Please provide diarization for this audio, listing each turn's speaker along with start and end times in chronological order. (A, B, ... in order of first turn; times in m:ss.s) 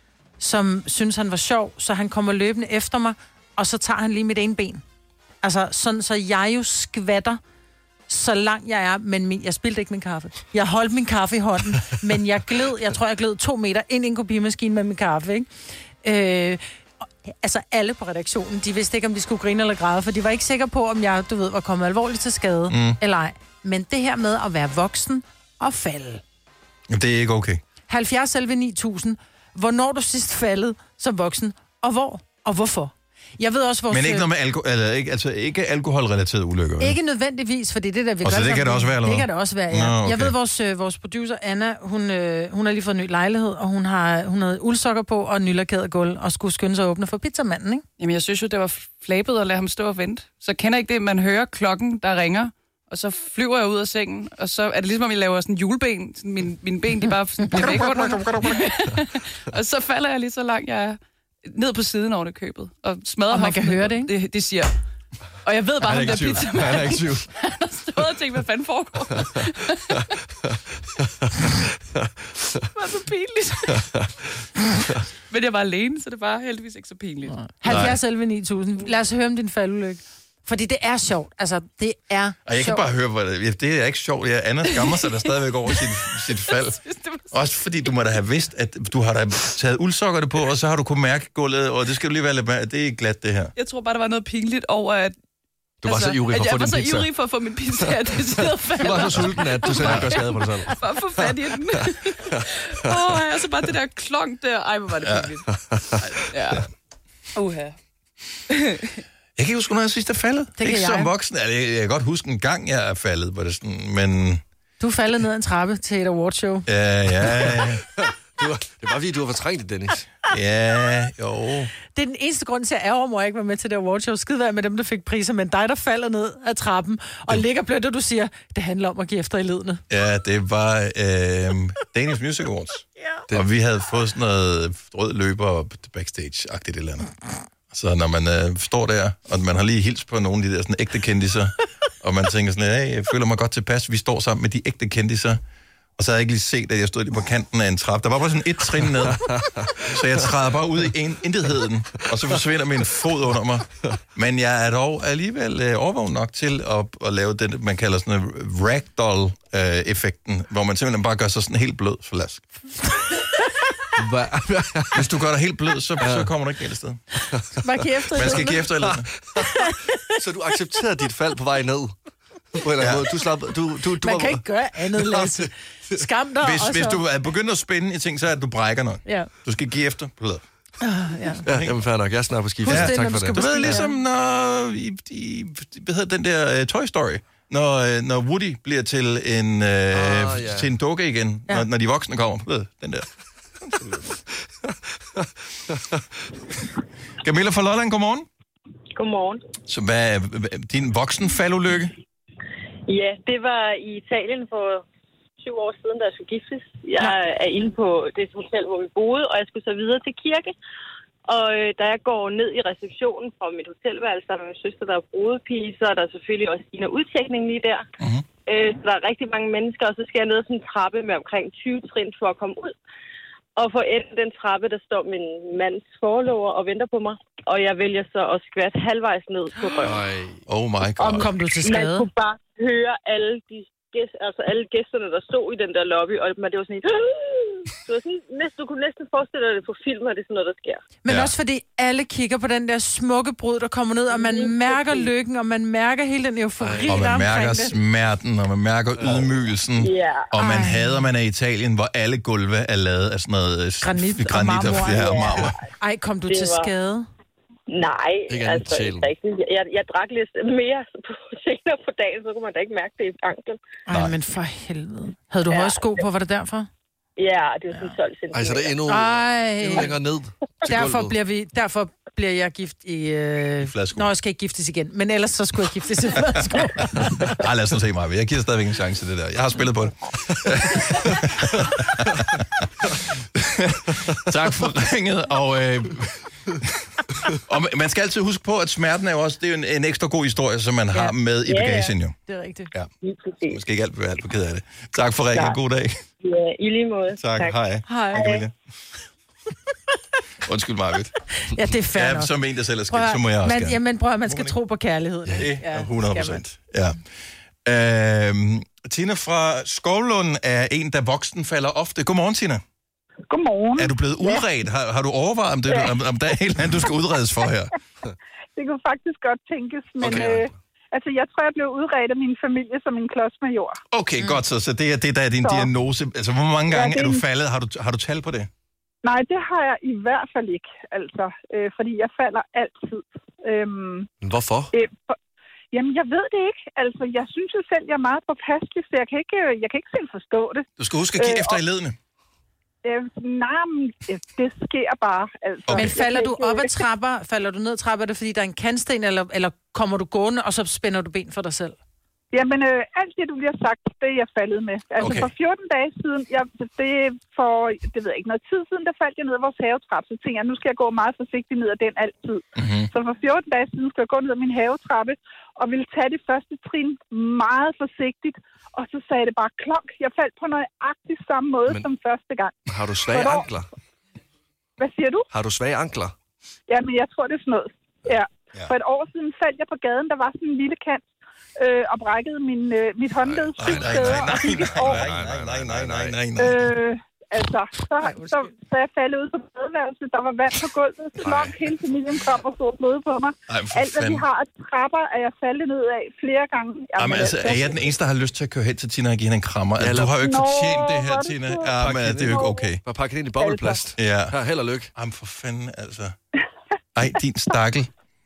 0:00.4-0:04.8 A
0:05.4-0:07.4 A
0:08.1-0:15.5 A
0:16.0-0:16.6 A
0:17.2-0:26.2 A
0:22.7-0:23.0 B
0:26.9-0:27.6 B
0:27.9-0:34.3 A
0:33.9-0:37.0 B
0:36.8-0:47.8 A
0:38.2-0:40.3 B
0:48.0-1:04.8 C
0:57.6-0:58.7 B
1:03.3-1:04.1 A
1:05.4-1:10.1 C
1:05.8-1:07.0 B
1:06.0-1:07.2 D
1:12.7-1:13.9 C
1:15.3-1:17.5 C
1:17.4-1:22.8 A
1:17.6-1:18.0 B
1:22.4-1:33.5 B
1:26.5-1:27.4 C
1:33.6-1:35.1 C
1:35.8-1:37.1 D
1:35.8-1:45.4 C
1:38.8-1:40.8 D
1:39.8-1:40.1 B
1:41.7-1:42.4 D
1:45.0-1:45.3 B
1:45.5-1:46.0 D
1:46.3-1:46.7 C
1:47.3-1:47.8 C
1:48.5-1:49.0 C
1:49.4-1:54.4 B
1:50.6-1:51.1 A
1:54.8-1:56.7 A
1:56.7-1:57.8 B
1:57.3-2:00.1 D
2:00.3-2:01.7 B
2:01.9-2:09.8 A
2:09.9-2:17.1 B
2:17.7-2:25.4 B
2:26.0-2:42.4 B
2:29.2-2:29.8 D
2:44.0-2:45.1 D
2:44.9-2:47.0 B
2:46.0-2:46.3 D
2:47.6-2:48.6 A
2:48.1-2:49.1 B
2:48.2-2:51.9 D
2:49.4-2:50.0 A
2:52.5-2:55.9 D
2:52.8-2:53.0 B
2:54.0-2:57.0 A
2:56.4-3:00.4 B
3:00.8-3:01.4 A
3:01.4-3:01.7 B
3:01.4-3:03.8 D
3:02.6-3:04.0 A
3:02.6-3:13.0 B
3:09.9-3:10.7 D
3:13.6-3:13.9 B
3:15.2-3:16.0 D
3:17.2-3:18.3 B
3:18.9-3:19.4 E
3:19.7-3:21.9 B
3:22.9-3:24.8 E
3:25.4-3:30.5 E
3:31.3-3:37.9 E
3:38.0-3:38.2 B
3:38.4-3:42.7 E
3:43.6-3:50.0 E
3:49.8-3:50.4 D
3:50.5-3:51.3 B
3:51.0-4:00.8 E
3:51.2-3:52.1 A
4:01.0-4:07.7 A
4:01.1-4:01.3 B
4:04.1-4:05.1 E
4:06.6-4:07.0 D
4:06.8-4:15.5 B
4:09.0-4:09.3 D
4:09.8-4:10.3 E
4:10.4-4:11.1 A
4:13.8-4:17.1 A
4:14.9-4:15.6 E
4:16.3-4:16.7 E
4:17.7-4:23.6 E
4:18.3-4:19.1 D
4:23.9-4:26.7 A
4:25.5-4:26.0 E
4:27.2-4:28.8 E
4:28.3-4:31.1 D
4:28.9-4:29.9 A
4:30.7-4:37.4 A
4:33.6-4:34.1 B
4:37.3-4:52.2 B
4:51.5-4:51.9 E
4:52.3-4:52.7 A
4:53.0-4:53.6 E
4:53.4-4:56.0 B
4:55.3-4:55.6 E
4:56.2-4:57.6 E
4:57.2-4:58.5 B
4:57.9-4:58.4 A
4:58.1-4:58.4 E
5:00.4-5:01.1 B
5:01.4-5:02.3 A
5:01.9-5:04.5 B
5:02.9-5:06.4 A
5:05.3-5:07.0 B
5:07.6-5:12.6 B
5:13.3-5:14.4 F
5:13.8-5:17.7 B
5:18.6-5:23.8 F
5:20.0-5:20.5 D
5:23.9-5:28.5 B
5:25.4-5:25.7 F
5:26.7-5:27.2 F
5:29.0-5:34.1 F
5:34.2-5:34.7 D
5:34.7-5:35.2 F
5:35.7-5:40.7 F
5:40.8-5:42.0 B
5:41.2-5:41.6 F
5:42.8-5:46.7 F
5:45.7-5:45.9 B
5:45.7-5:51.8 A
5:52.3-6:12.6 F
5:55.0-5:55.3 B
6:02.6-6:02.9 B
6:12.7-6:13.7 D
6:13.1-6:13.5 F
6:14.8-6:15.2 F
6:15.3-6:16.1 D
6:16.7-6:21.0 F
6:21.6-6:25.0 F
6:23.3-6:26.2 D
6:23.6-6:26.6 B
6:26.4-6:37.8 F
6:28.0-6:28.4 A
6:31.2-6:31.5 D
6:33.5-6:34.2 B
6:37.0-6:42.8 B
6:39.8-6:40.1 D
6:40.2-6:42.7 F
6:41.8-6:44.9 D
6:43.4-6:43.8 F
6:44.0-6:44.3 B
6:44.9-6:46.2 B
6:46.9-6:47.9 B